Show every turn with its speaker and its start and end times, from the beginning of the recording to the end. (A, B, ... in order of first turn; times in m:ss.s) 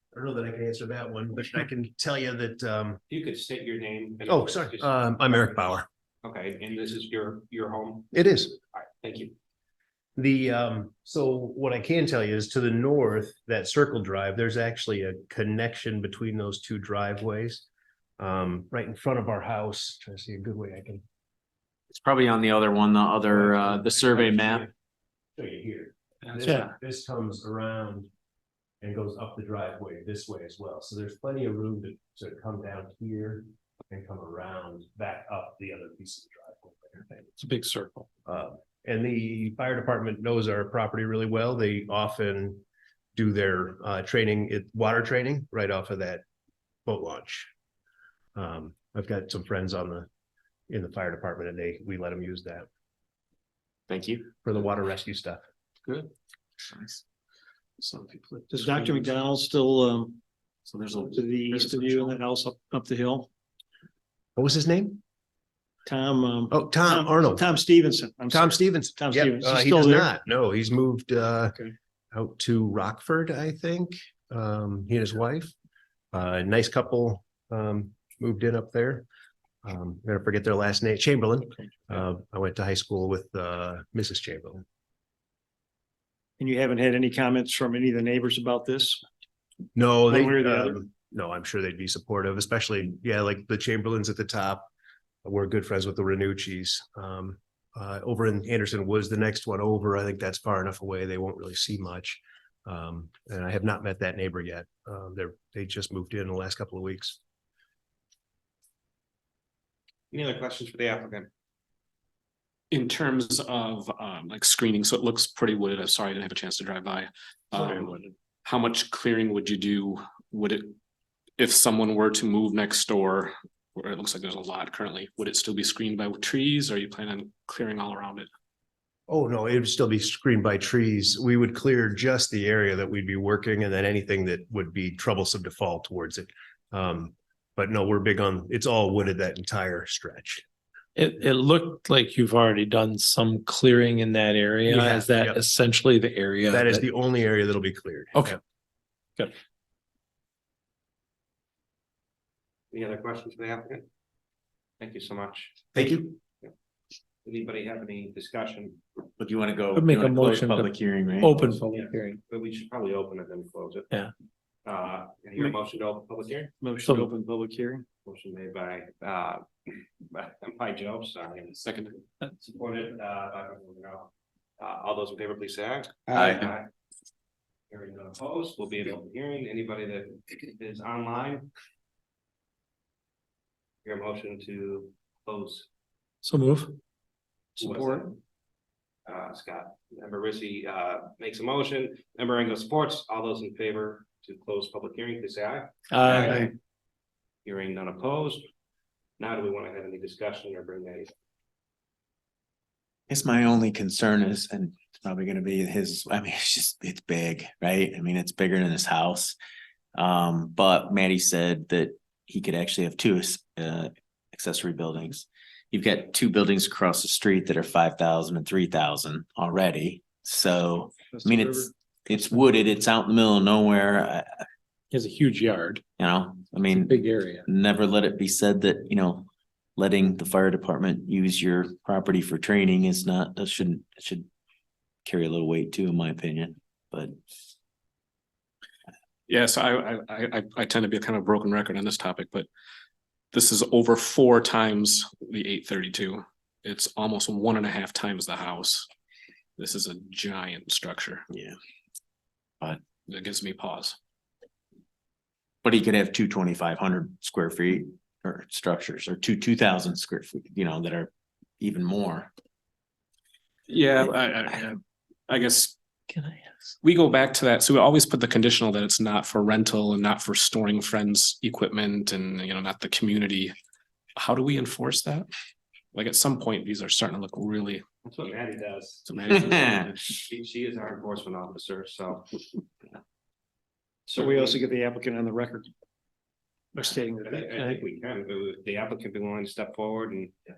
0:00.1-0:03.0 A
0:03.1-0:05.4 B
0:04.3-0:05.9 A
0:06.2-0:08.2 B
0:08.1-0:08.6 A
0:08.7-0:09.3 B
0:10.2-0:17.6 A
0:18.2-0:21.0 A
0:21.9-0:24.7 C
0:23.3-0:24.7 A
0:25.4-0:28.1 A
0:26.4-0:26.7 D
0:28.8-0:37.2 A
0:37.4-0:38.0 D
0:38.2-0:42.6 A
0:43.1-0:46.2 A
0:46.8-0:47.5 A
0:48.3-0:50.1 A
0:50.7-0:52.7 A
0:53.9-0:54.3 C
0:54.4-0:55.4 A
0:56.7-0:57.0 C
0:58.3-0:58.9 D
0:58.5-1:00.2 E
1:00.7-1:02.1 C
1:01.1-1:03.3 E
1:04.4-1:05.0 A
1:05.8-1:10.1 E
1:06.5-1:07.5 A
1:08.3-1:11.6 A
1:12.1-1:15.5 A
1:16.1-1:19.0 A
1:19.6-1:24.6 A
1:26.4-1:29.0 E
1:29.7-1:34.7 A
1:30.1-1:30.7 E
1:35.2-1:47.2 A
1:50.1-1:51.3 B
1:52.7-2:00.7 F
2:01.4-2:08.3 F
2:09.1-2:20.4 A
2:21.0-2:26.8 D
2:24.7-2:25.4 A
2:26.5-2:28.4 A
2:32.7-2:33.9 B
2:34.8-2:35.9 B
2:35.7-2:36.2 C
2:37.2-2:38.8 B
2:39.2-2:41.4 C
2:39.7-2:42.2 D
2:41.5-2:43.9 B
2:44.6-2:46.5 B
2:46.6-2:47.8 E
2:46.8-2:47.1 D
2:48.0-2:51.6 B
2:51.5-2:52.0 F
2:52.4-2:56.7 B
2:56.1-2:56.5 C
2:57.7-3:01.5 B
3:03.8-3:05.7 B
3:06.2-3:06.8 D
3:07.6-3:08.2 B
3:09.0-3:16.5 B
3:15.9-3:16.5 D
3:17.4-3:18.4 B
3:19.2-3:21.1 B
3:23.1-3:29.4 C
3:29.9-3:44.4 C
3:41.2-3:41.6 E
3:44.9-3:45.8 D
3:46.0-3:54.3 C
3:46.6-3:47.5 D
3:55.0-3:57.2 C
3:59.3-4:02.5 F
4:03.3-4:08.9 F
4:09.6-4:11.3 F
4:13.0-4:14.0 F
4:15.6-4:22.3 C
4:23.7-4:25.7 F
4:26.1-4:26.5 D
4:26.8-4:33.5 F
4:34.2-4:35.3 F
4:35.9-4:37.8 F
4:38.0-4:39.1 B
4:39.0-4:40.2 F
4:39.3-4:39.9 C
4:40.2-4:42.4 B
4:44.1-4:44.6 B
4:44.2-4:45.7 E
4:46.8-4:50.4 B
4:46.8-4:47.8 E